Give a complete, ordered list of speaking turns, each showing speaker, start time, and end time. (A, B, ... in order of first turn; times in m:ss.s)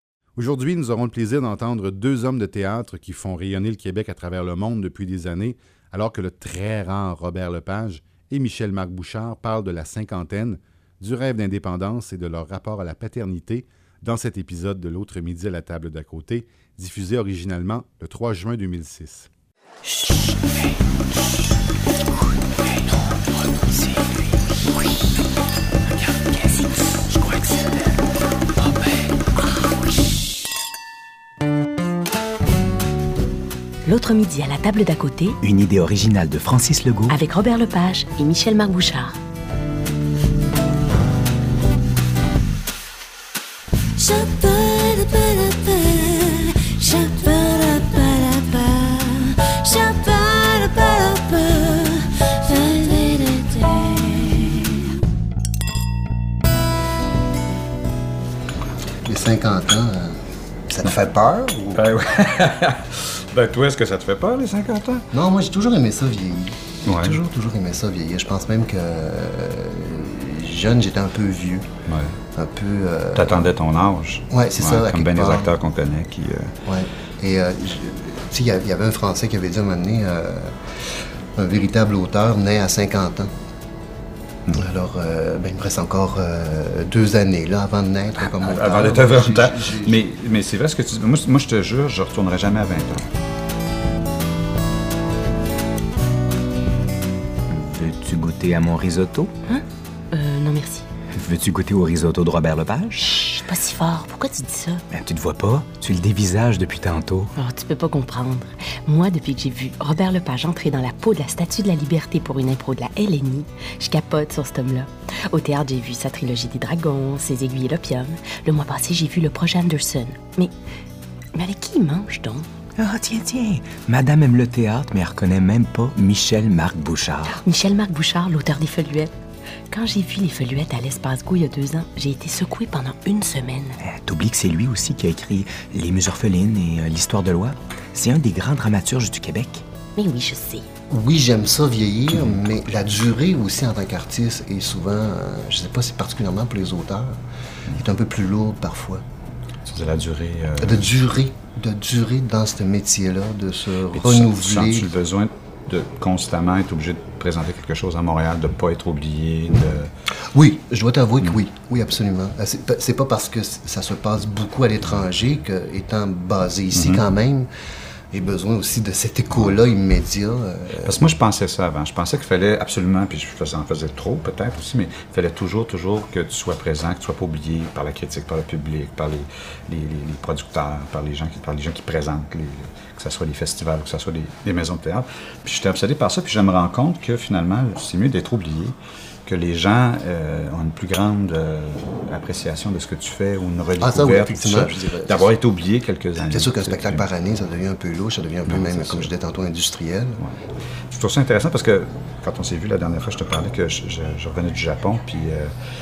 0:00.4-0:19.3 A
0:27.1-0:27.6 B
0:33.8-0:35.4 C
0:35.4-0:37.2 B
0:37.1-0:39.2 C
0:44.0-0:55.0 C
0:59.0-1:01.9 D
1:01.7-1:05.1 E
1:05.1-1:11.7 D
1:06.8-1:07.2 E
1:11.8-1:12.2 E
1:12.3-1:13.4 D
1:13.1-1:16.6 E
1:14.3-1:15.6 D
1:16.6-1:20.6 D
1:21.4-1:23.3 D
1:24.5-1:30.1 D
1:28.2-1:33.1 E
1:37.5-1:39.3 B
1:39.4-1:40.8 C
1:41.1-1:43.3 B
1:43.2-1:44.8 C
1:44.9-1:47.3 B
1:47.4-2:00.5 C
2:01.3-2:02.4 C
2:02.8-2:07.4 B
2:07.4-2:09.1 C
2:09.7-2:13.8 C
2:13.8-2:19.6 B
2:20.0-2:20.6 C
2:20.9-2:27.2 D
2:22.1-2:22.4 E
2:27.7-2:29.0 D
2:29.6-2:31.1 E
2:30.6-2:34.9 D
2:33.9-2:39.9 E
2:40.3-2:47.5 D
2:46.7-2:47.0 E
2:48.1-2:51.0 D
2:50.8-3:17.1 E
3:13.8-3:15.3 D
3:16.3-3:20.2 D
3:18.4-3:19.1 E
3:20.9-3:25.5 E